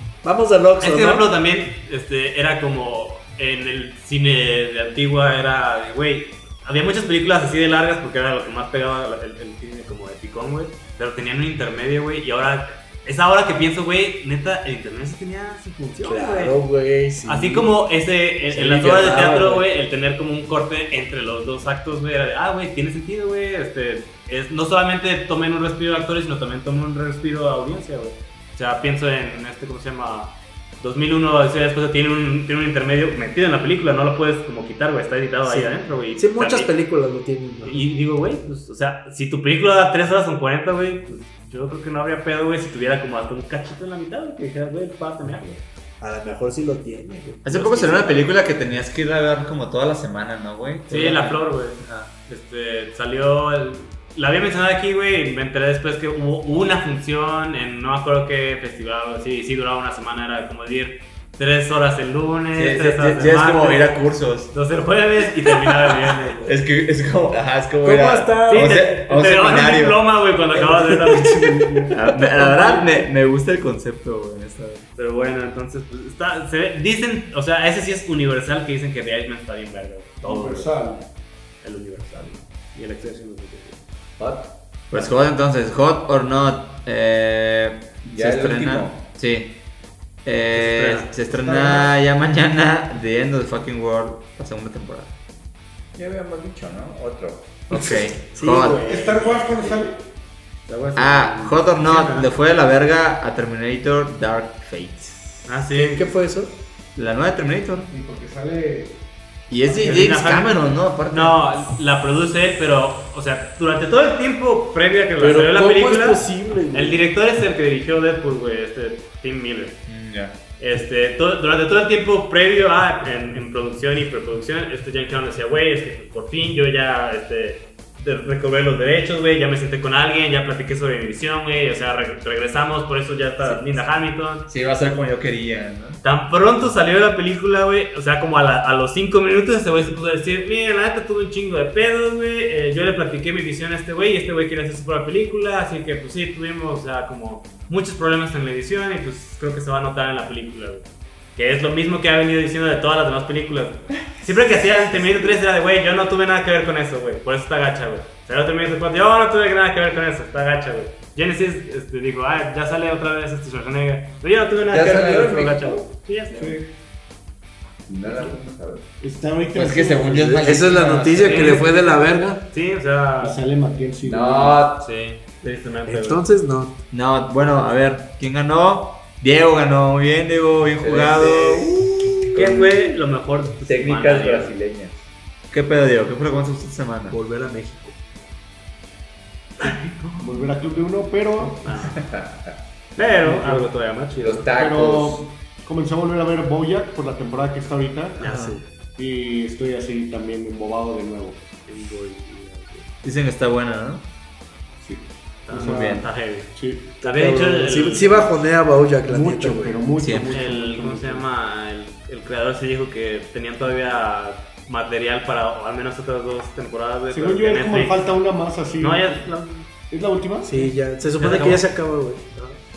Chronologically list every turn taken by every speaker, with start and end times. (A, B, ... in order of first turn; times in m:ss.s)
0:00.2-0:01.2 A
0:00.8-0:16.5 B
0:16.0-0:17.7 A
0:17.2-0:36.7 B
0:18.5-0:19.6 A
0:35.4-0:37.8 A
0:37.6-0:45.6 B
0:46.0-0:48.2 A
0:47.4-0:52.1 C
0:50.9-1:06.5 B
1:02.5-1:04.5 C
1:06.4-1:10.0 C
1:07.8-1:08.8 A
1:08.5-1:11.7 B
1:10.5-1:12.8 A
1:11.9-1:14.8 C
1:15.0-1:20.7 B
1:20.2-1:21.0 D
1:21.6-1:23.8 B
1:24.2-1:24.5 E
1:24.9-1:29.6 C
1:28.1-1:29.0 E
1:30.2-1:35.1 C
1:30.5-1:31.1 B
1:31.4-1:31.9 D
1:35.9-1:37.6 E
1:37.7-1:38.8 C
1:37.7-1:39.8 A
1:38.8-1:40.0 D
1:40.7-1:42.3 B
1:40.9-1:45.3 C
1:45.4-1:46.1 B
1:45.7-1:46.6 A
1:47.0-1:47.9 C
1:47.9-1:49.0 D
1:49.5-1:51.4 C
1:49.7-1:50.2 D
1:49.8-1:59.8 B
1:55.2-1:57.0 A
1:59.9-2:00.4 C
2:00.6-2:14.5 B
2:14.5-2:16.0 C
2:16.0-2:30.8 B
2:31.4-2:46.4 B
2:44.6-2:46.6 E
2:47.9-2:48.8 E
2:49.0-2:50.6 D
2:49.5-2:51.8 C
2:50.4-2:52.4 A
2:51.2-2:51.8 B
2:52.4-2:53.4 B
2:53.2-2:54.7 D
2:54.0-2:54.9 E
2:54.8-2:56.2 B
2:55.9-2:56.8 A
2:56.9-3:02.7 C
3:00.8-3:02.6 E
3:01.1-3:01.6 B
3:02.3-3:04.6 B
3:03.6-3:04.9 E
3:05.5-3:07.2 C
3:07.1-3:08.0 A
3:09.6-3:11.7 D
3:10.0-3:10.2 B
3:11.6-3:12.0 B
3:11.9-3:12.5 E
3:13.0-3:14.5 B
3:13.2-3:13.7 D
3:14.2-3:15.2 E
3:14.5-3:18.2 D
3:18.2-3:18.6 C
3:18.2-3:18.5 B
3:18.2-3:18.6 A
3:19.0-3:21.4 D
3:21.7-3:22.9 B
3:23.0-3:24.0 C
3:24.8-3:26.9 D
3:25.5-3:28.3 B
3:25.5-3:26.1 C
3:27.0-3:29.8 A
3:29.0-3:31.2 D
3:30.0-3:30.4 C
3:30.3-3:38.0 B
3:37.1-3:39.2 D
3:38.8-3:39.7 B
3:39.9-3:40.7 D
3:40.4-3:42.6 A
3:41.2-3:41.6 B